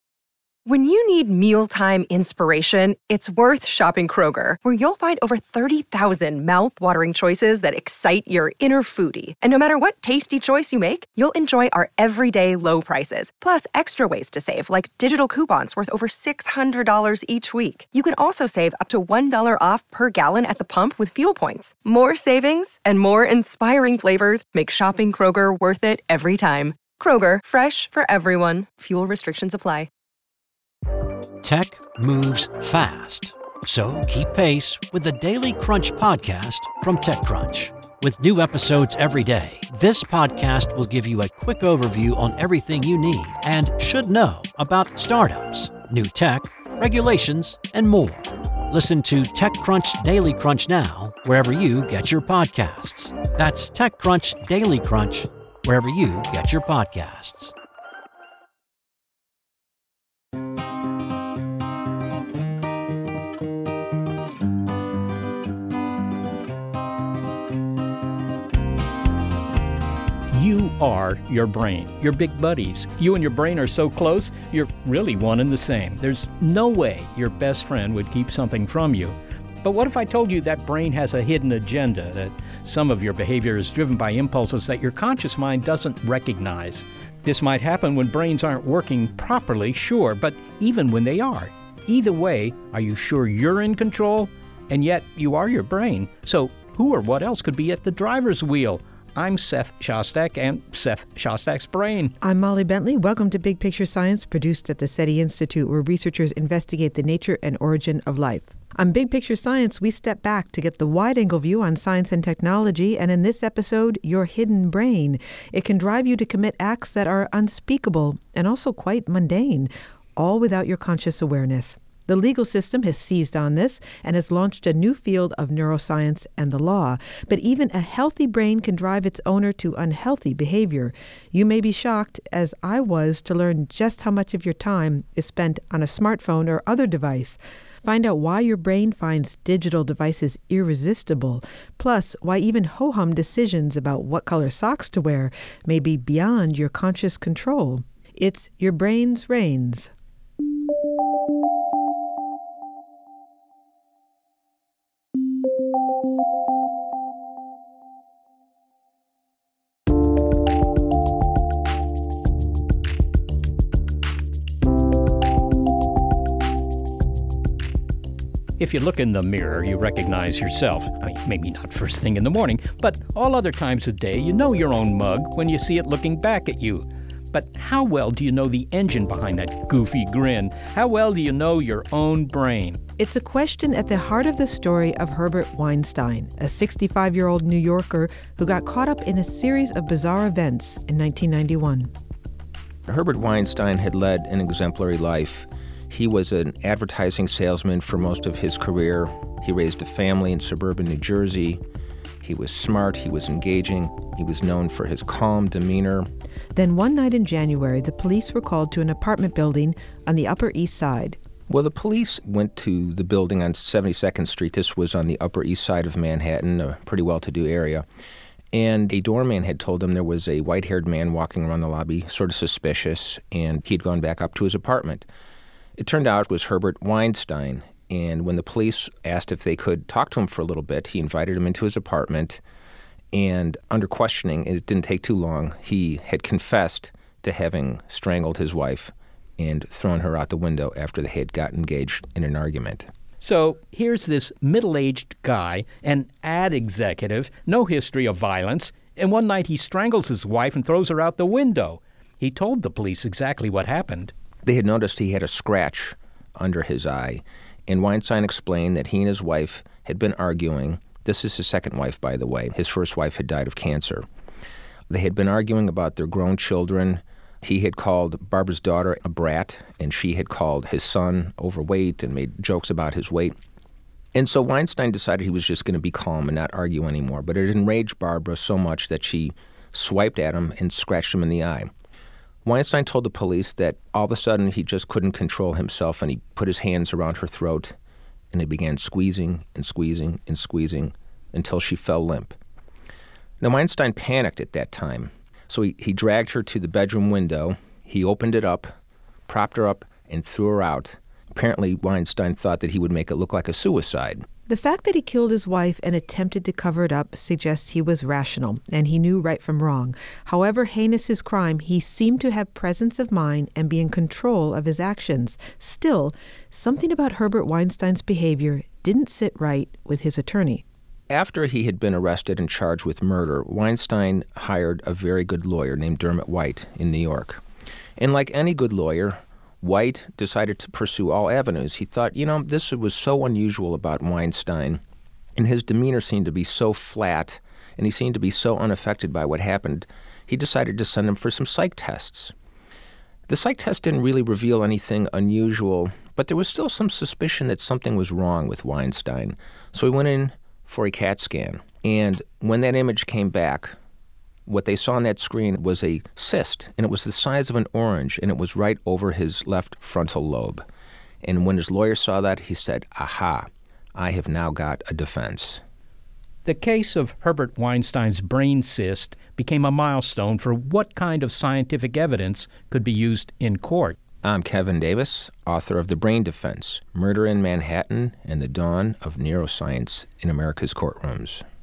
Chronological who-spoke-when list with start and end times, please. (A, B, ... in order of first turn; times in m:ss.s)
0:00.6-0:29.9 A
0:31.4-0:57.5 B
1:10.3-1:42.2 C
1:42.2-2:29.9 D
2:48.6-3:02.8 C
3:03.0-3:11.9 D
3:12.9-3:21.6 E
3:22.2-3:26.1 E
3:26.6-3:31.2 D
3:31.5-3:37.9 E
3:38.5-3:45.1 E
3:45.8-3:52.4 E
3:53.1-4:02.9 E
4:03.2-4:14.1 C
4:14.4-4:24.1 E
4:24.9-4:33.4 E
4:34.1-4:41.7 E
4:42.4-4:47.8 E
4:48.3-4:52.4 E
4:53.4-4:58.7 E
4:59.3-5:04.3 E
5:04.5-5:20.6 D
5:21.1-5:27.4 E
5:28.0-5:34.8 E
5:35.4-5:42.3 E
5:43.3-5:53.8 E
5:54.5-6:00.6 E
6:01.2-6:05.6 E
6:06.4-6:14.0 C
6:14.2-6:21.4 E